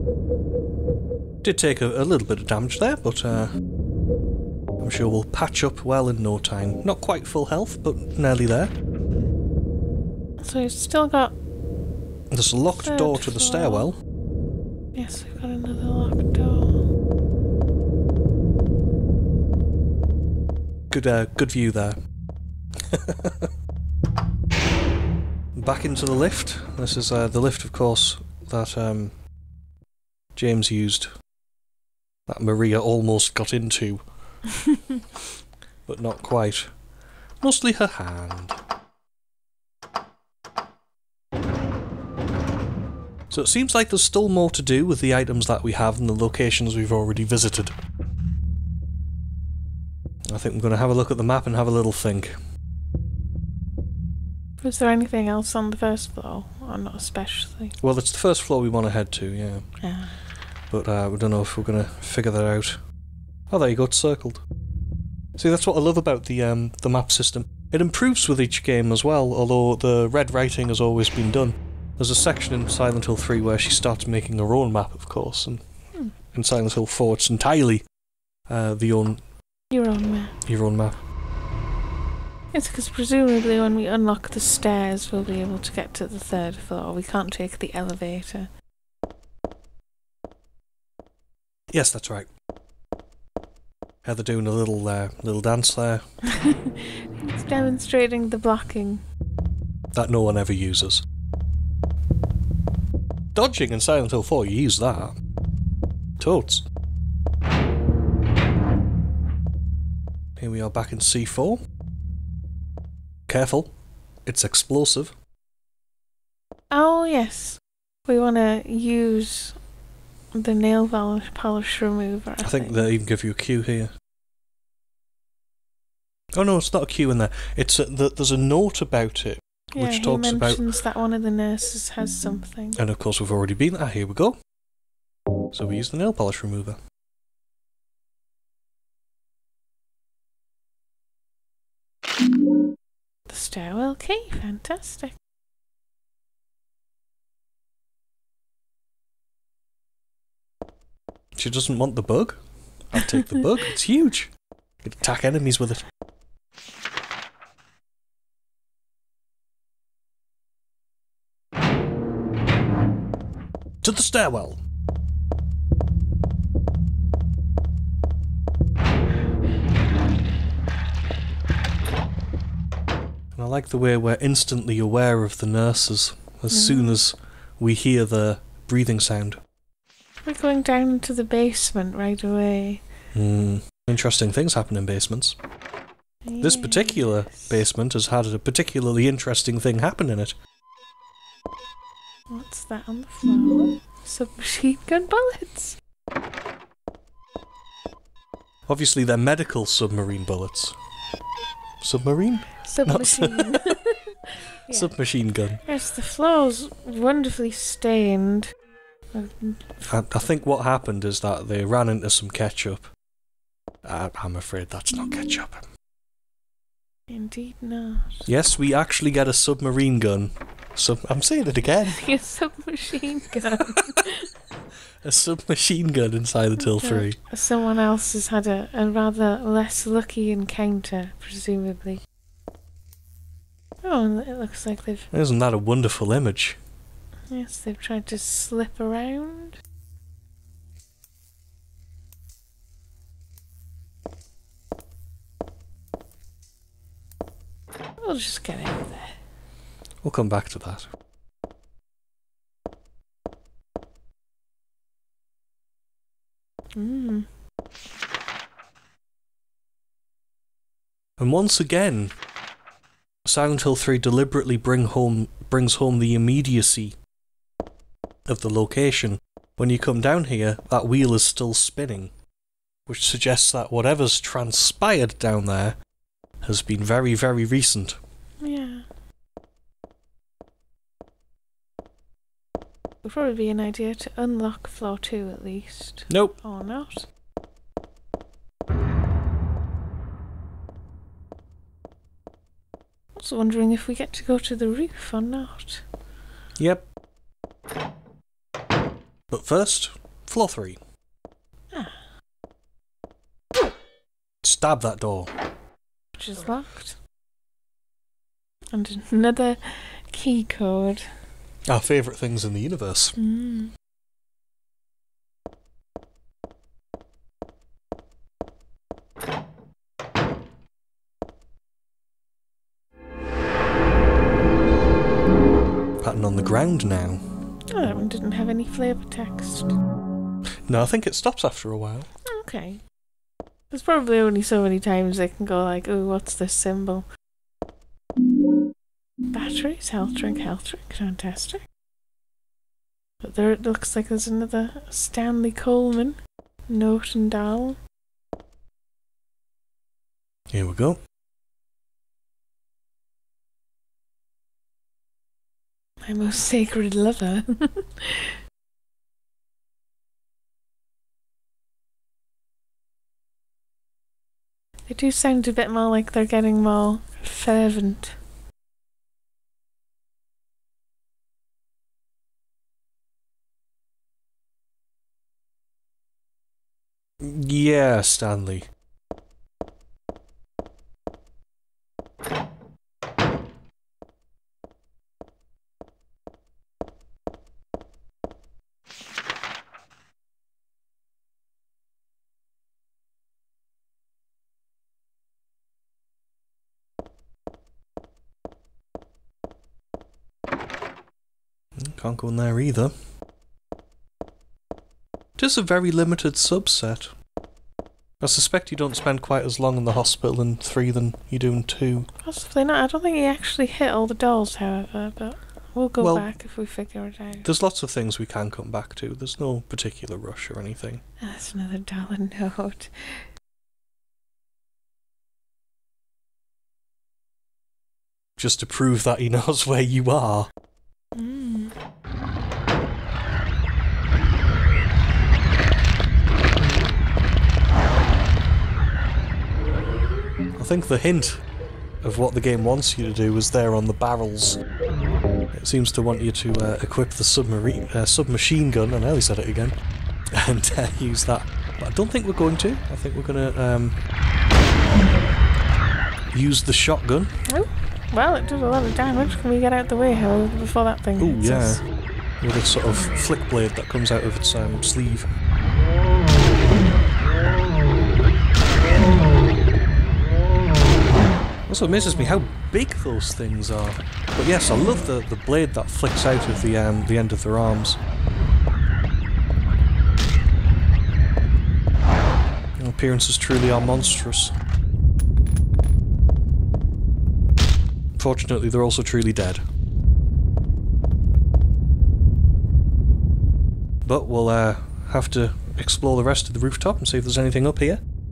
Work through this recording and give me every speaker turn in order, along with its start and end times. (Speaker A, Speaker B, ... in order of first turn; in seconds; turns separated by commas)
Speaker A: 1.4-3.5, Speaker A: 4.8-8.7, Speaker B: 10.4-11.3, Speaker A: 12.3-14.0, Speaker B: 12.7-13.9, Speaker B: 14.9-16.8, Speaker A: 20.9-22.0, Speaker A: 22.9-23.5, Speaker A: 25.6-29.1, Speaker A: 30.4-31.1, Speaker A: 32.3-34.0, Speaker A: 35.9-36.7, Speaker A: 37.4-38.6, Speaker A: 43.3-47.7, Speaker A: 50.3-52.4, Speaker B: 54.6-57.7, Speaker A: 57.8-59.6, Speaker B: 59.8-60.2, Speaker A: 60.7-62.8, Speaker A: 63.5-64.4, Speaker A: 65.4-75.6, Speaker A: 76.3-77.8, Speaker A: 78.5-79.2, Speaker B: 79.7-80.3, Speaker A: 80.5-81.0, Speaker B: 82.5-88.5, Speaker A: 91.7-92.3, Speaker A: 94.0-96.0, Speaker B: 96.3-99.0, Speaker A: 99.9-101.0, Speaker A: 103.3-105.1, Speaker A: 106.2-106.6, Speaker A: 110.4-111.6, Speaker A: 113.3-113.7, Speaker A: 114.2-115.1, Speaker B: 116.7-119.6, Speaker B: 120.3-122.9, Speaker A: 122.4-123.9, Speaker A: 126.3-130.6, Speaker B: 129.7-132.8, Speaker A: 132.8-134.4, Speaker A: 135.5-136.8, Speaker B: 143.3-145.2, Speaker A: 151.3-154.3, Speaker A: 154.8-155.8, Speaker A: 163.8-164.6, Speaker A: 173.3-179.4, Speaker B: 176.5-177.0, Speaker B: 180.2-182.8, Speaker A: 183.1-185.3, Speaker B: 186.2-187.6, Speaker A: 186.4-190.3, Speaker B: 192.3-195.8, Speaker A: 198.7-200.7, Speaker A: 201.8-203.7, Speaker B: 202.6-204.9, Speaker A: 204.7-205.6, Speaker B: 205.6-208.5, Speaker B: 209.1-209.8, Speaker A: 209.8-212.9, Speaker A: 213.8-215.6, Speaker B: 217.1-218.3, Speaker A: 218.2-222.0, Speaker B: 221.9-224.3, Speaker A: 225.0-227.2, Speaker B: 226.6-232.0, Speaker B: 233.8-235.1, Speaker A: 235.1-236.6, Speaker B: 237.3-239.6, Speaker B: 248.0-249.2, Speaker A: 250.0-250.9, Speaker B: 256.7-257.3, Speaker A: 261.2-262.1, Speaker A: 263.2-266.9, Speaker A: 268.3-272.1, Speaker A: 272.9-275.8, Speaker A: 276.4-278.0, Speaker B: 278.4-278.8, Speaker B: 283.0-287.1, Speaker A: 286.1-286.4, Speaker B: 293.2-295.8, Speaker A: 296.6-296.9, Speaker A: 299.3-300.8, Speaker B: 301.7-302.0, Speaker A: 304.4-305.3, Speaker B: 306.2-307.0, Speaker B: 308.7-311.1, Speaker A: 311.7-313.1, Speaker B: 313.1-313.7, Speaker A: 326.0-327.2, Speaker B: 327.7-329.7, Speaker A: 330.7-332.1, Speaker B: 332.3-332.8, Speaker B: 333.7-337.1, Speaker B: 339.3-341.6, Speaker B: 343.2-347.8, Speaker A: 350.5-351.0, Speaker B: 356.1-358.4, Speaker B: 364.9-368.1, Speaker A: 377.2-378.7, Speaker A: 401.8-402.9, Speaker A: 405.4-407.1, Speaker A: 408.2-412.1, Speaker B: 412.2-417.5, Speaker A: 416.0-416.3, Speaker A: 417.4-421.0, Speaker B: 421.2-423.3, Speaker A: 428.4-430.5, Speaker B: 431.1-431.7, Speaker A: 440.6-441.4, Speaker A: 442.0-444.6, Speaker A: 445.5-449.8, Speaker A: 450.3-454.0, Speaker A: 456.3-457.3, Speaker B: 457.5-461.8, Speaker A: 461.2-461.8, Speaker A: 462.4-465.3, Speaker A: 471.7-478.0, Speaker A: 482.8-484.5, Speaker A: 488.2-489.6, Speaker A: 494.0-498.0